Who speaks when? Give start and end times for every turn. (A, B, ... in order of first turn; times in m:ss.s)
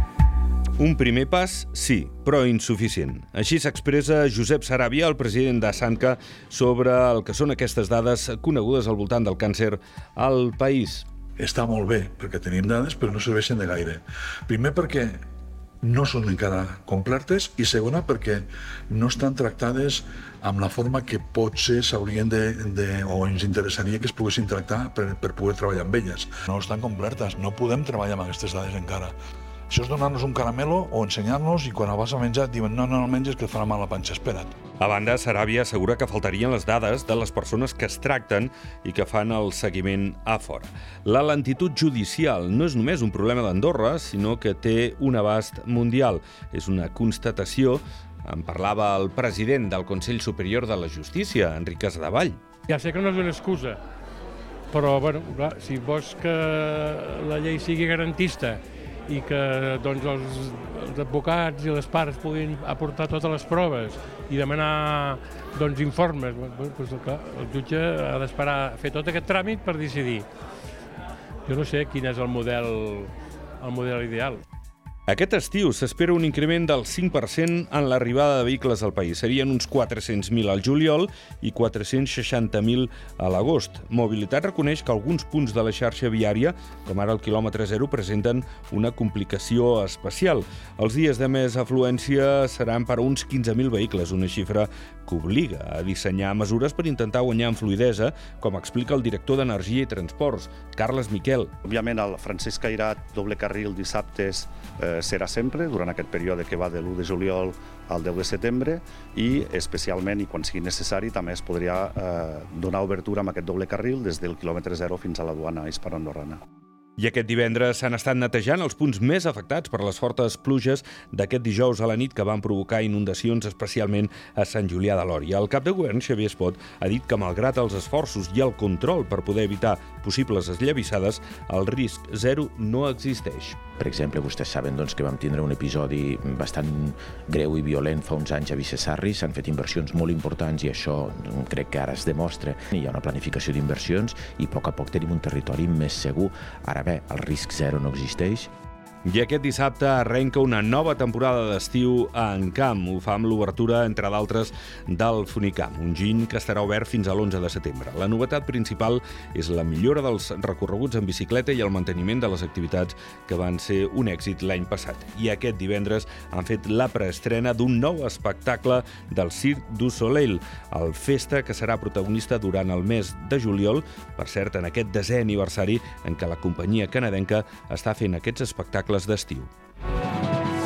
0:00.8-0:11.0 A
0:11.4-0:15.2 B
0:15.8-0:29.1 B
0:29.7-0:34.6 B
0:34.8-0:52.4 A
0:52.7-0:53.8 C
0:54.7-1:10.3 C
1:11.4-1:14.4 C
1:15.1-1:41.5 A
1:41.6-1:56.4 D
1:57.0-2:13.6 A
2:13.8-2:28.5 E
2:29.0-2:59.5 A